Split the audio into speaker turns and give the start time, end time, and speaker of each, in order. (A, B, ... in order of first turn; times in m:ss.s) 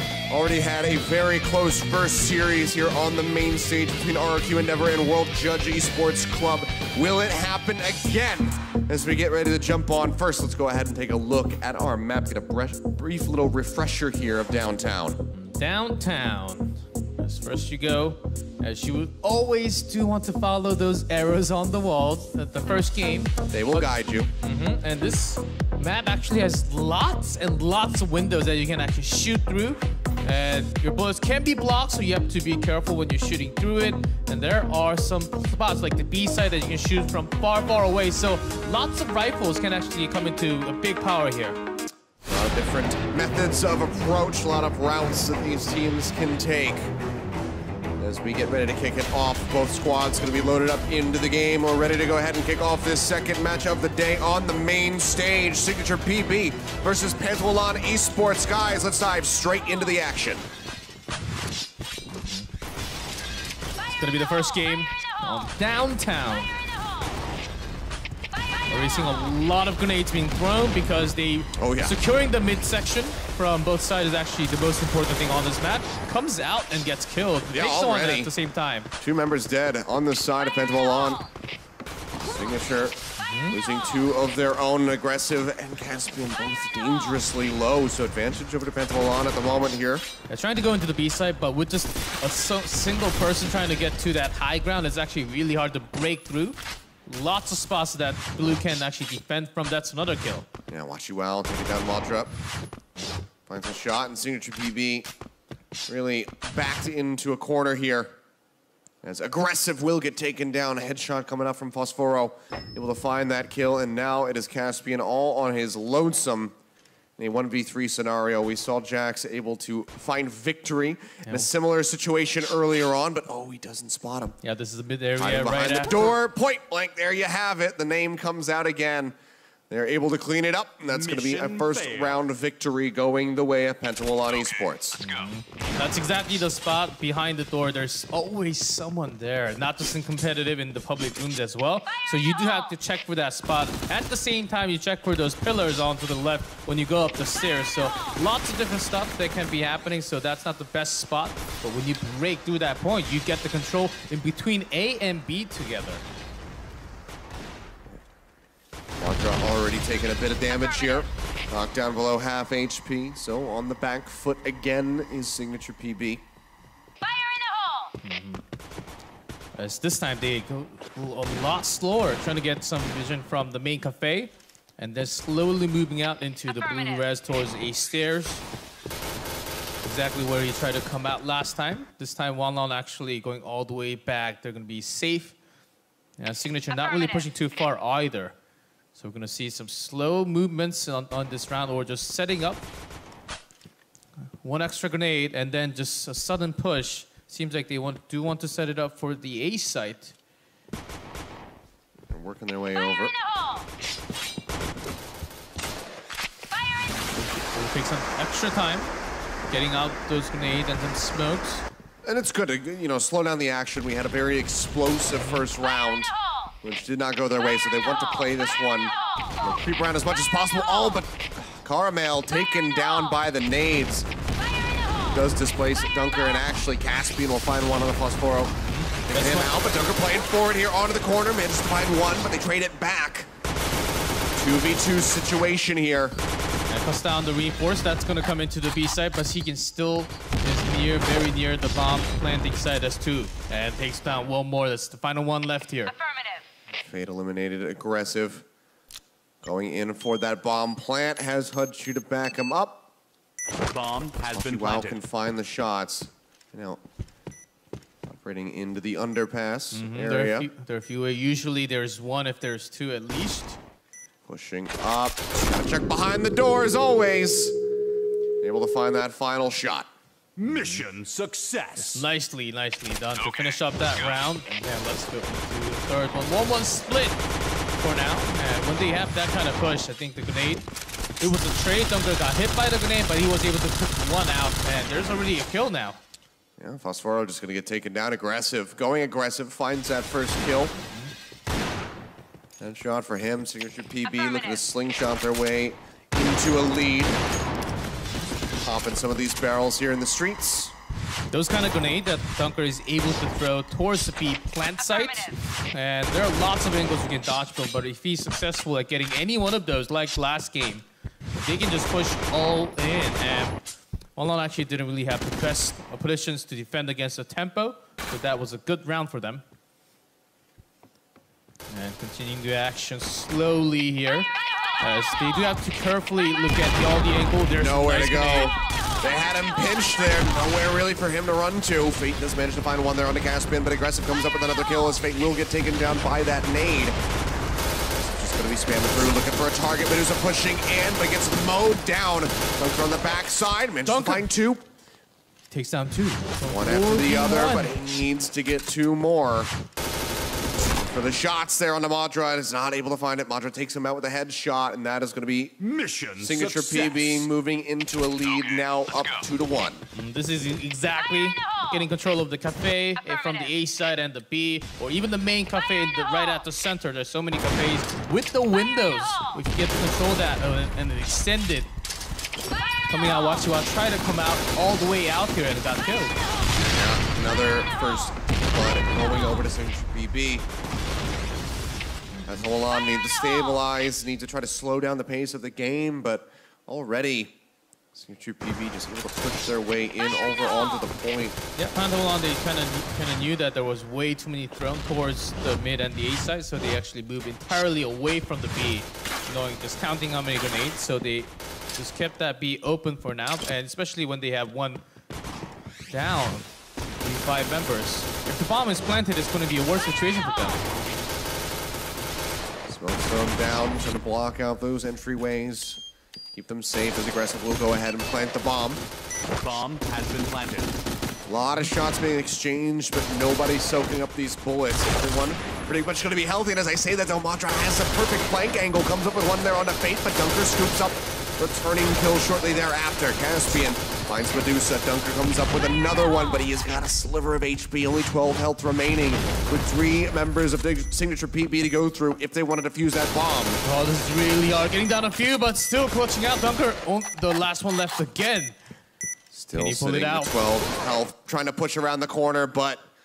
0:00.3-0:15.2 A
0:15.3-0:41.6 B
0:23.5-0:24.3 A
0:42.2-0:46.9 A
0:48.0-1:00.4 A
1:02.1-1:02.5 B
1:03.9-1:06.5 B
1:08.7-1:18.9 B
1:11.6-1:12.0 A
1:17.5-1:18.3 A
1:19.0-1:21.2 A
1:22.2-1:30.1 A
1:23.2-1:23.6 B
1:30.3-1:40.5 B
1:40.7-1:42.4 A
1:43.4-1:45.1 A
1:45.9-1:48.1 A
1:49.0-1:56.5 A
1:57.2-2:04.4 A
2:01.2-2:01.5 B
2:04.4-2:06.1 B
2:05.2-2:09.1 A
2:09.7-2:15.0 A
2:10.9-2:12.2 C
2:15.0-2:36.0 B
2:39.0-2:46.2 A
2:48.0-2:48.4 B
2:49.6-2:58.4 B
2:59.8-3:05.4 B
3:06.2-3:08.3 B
3:09.0-3:12.7 B
3:14.4-3:20.2 B
3:22.1-3:23.1 A
3:27.1-3:28.9 B
3:29.5-3:31.6 B
3:32.0-3:44.1 A
3:35.2-3:35.4 B
3:45.1-3:48.5 A
3:48.6-3:49.5 B
3:49.1-3:53.3 A
3:54.4-3:56.2 A
3:56.7-4:06.0 B
4:06.8-4:08.4 A
4:09.4-4:12.9 A
4:13.6-4:15.0 C
4:14.3-4:16.8 A
4:18.1-4:20.5 A
4:19.7-4:23.6 B
4:24.2-4:27.6 A
4:28.4-4:29.9 A
4:30.4-4:32.0 C
4:30.5-4:30.8 B
4:31.8-4:37.2 B
4:37.8-4:40.6 B
4:41.2-4:46.0 B
4:46.6-4:50.8 A
4:52.6-4:57.2 A
4:58.6-5:00.7 A
5:01.3-5:13.6 B
5:14.2-5:19.4 B
5:21.7-5:28.6 B
5:27.6-5:37.0 A
5:37.9-5:44.6 A
5:43.8-5:44.2 B
5:45.5-5:47.7 B
5:46.5-5:49.5 A
5:50.8-5:55.6 A
5:55.6-5:57.3 C
5:56.2-5:59.8 A
5:59.9-6:11.7 B
6:12.9-6:16.1 B
6:16.7-6:20.5 A
6:22.1-6:22.4 B
6:22.2-6:27.3 A
6:27.9-6:31.4 A
6:31.6-6:44.8 B
6:45.9-6:46.5 B
6:47.0-6:50.7 B
6:52.7-6:55.8 A
6:56.3-6:58.8 A
6:59.3-7:00.8 C
7:01.2-7:23.6 A
7:23.6-7:28.6 B
7:29.3-7:32.8 A
7:29.5-7:30.3 B